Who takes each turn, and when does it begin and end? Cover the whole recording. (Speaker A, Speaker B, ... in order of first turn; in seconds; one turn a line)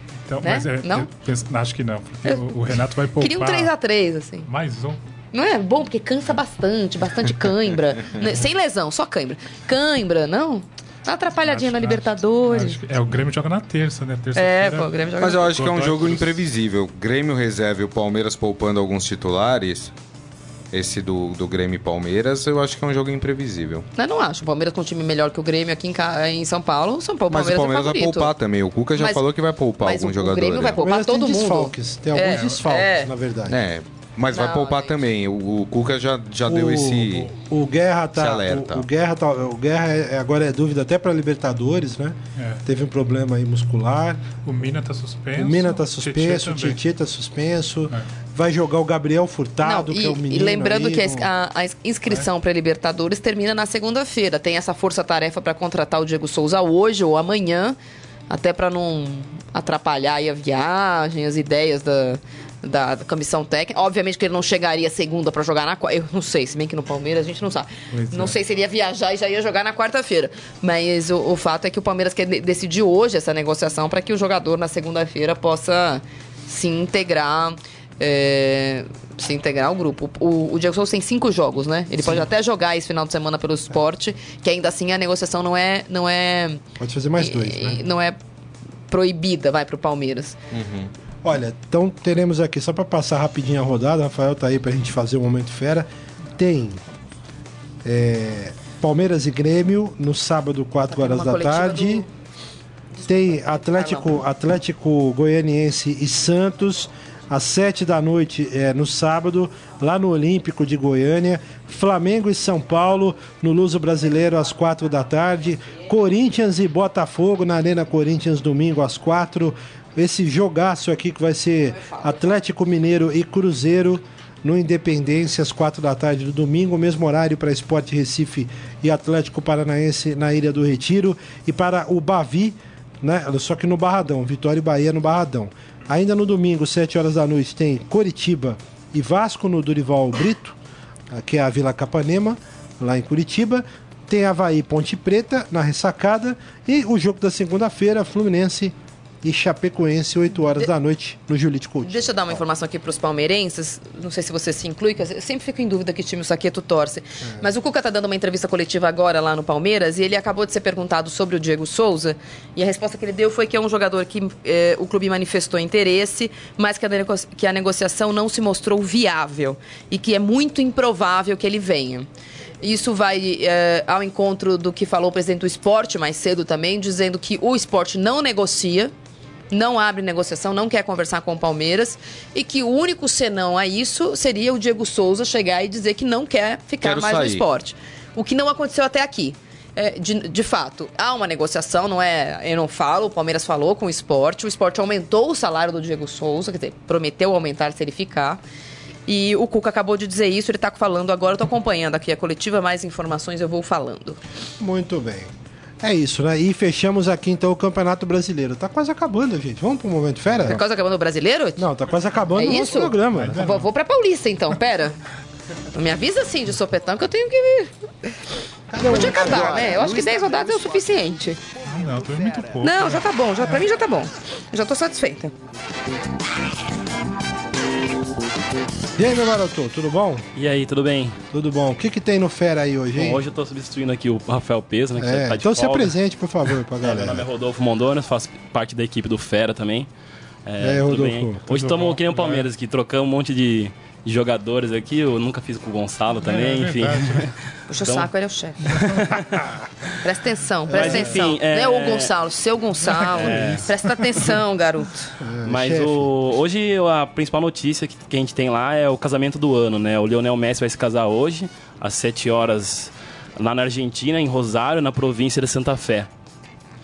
Speaker A: 0.3-3.7
Speaker B: 0.4-1.1
Speaker B: 3.2-4.5
Speaker A: 4.4-5.0
Speaker B: 5.3-12.8
Speaker A: 11.4-16.4
Speaker B: 14.3-15.5
Speaker C: 15.2-19.9
Speaker C: 20.7-23.9
Speaker B: 24.0-28.3
Speaker C: 27.3-30.8
Speaker B: 29.0-29.2
Speaker B: 29.8-33.1
Speaker D: 30.8-33.6
Speaker C: 33.5-37.3
Speaker B: 34.3-34.9
Speaker D: 36.5-44.2
Speaker C: 38.1-38.9
Speaker A: 42.4-42.6
Speaker A: 44.4-46.8
Speaker D: 45.4-51.3
Speaker B: 49.6-57.8
Speaker B: 58.3-86.6
Speaker A: 67.9-68.3
Speaker D: 86.8-87.8
Speaker B: 87.2-88.2
Speaker B: 88.9-90.4
Speaker C: 90.5-90.9
Speaker D: 91.2-96.8
Speaker D: 97.8-102.1
Speaker B: 100.9-102.1
Speaker B: 102.9-104.2
Speaker D: 103.1-140.6
Speaker B: 121.7-122.4
Speaker D: 141.1-152.4
Speaker B: 151.8-172.1
Speaker B: 172.6-178.9
Speaker B: 179.5-198.4
Speaker C: 186.8-187.4
Speaker B: 199.1-204.2
Speaker D: 204.6-210.6
Speaker B: 210.4-211.7
Speaker D: 211.6-213.6
Speaker B: 212.3-215.0
Speaker A: 213.1-213.7
Speaker B: 215.7-218.2
Speaker D: 218.7-220.8
Speaker B: 218.8-221.4
Speaker A: 221.7-223.6
Speaker B: 222.6-225.3
Speaker D: 229.0-230.2
Speaker E: 230.3-231.2
Speaker D: 231.3-233.2
Speaker E: 233.0-235.9
Speaker D: 235.0-237.3
Speaker E: 236.8-239.9
Speaker E: 240.5-248.1
Speaker D: 240.6-241.5
Speaker A: 241.5-242.5
Speaker A: 246.2-247.3
Speaker B: 247.7-248.8
Speaker E: 248.7-249.4
Speaker A: 248.7-249.0
Speaker B: 250.0-255.2
Speaker D: 250.7-251.2
Speaker E: 250.7-252.1
Speaker A: 252.9-253.7
Speaker E: 253.0-253.7
Speaker D: 255.2-256.1
Speaker E: 255.4-266.1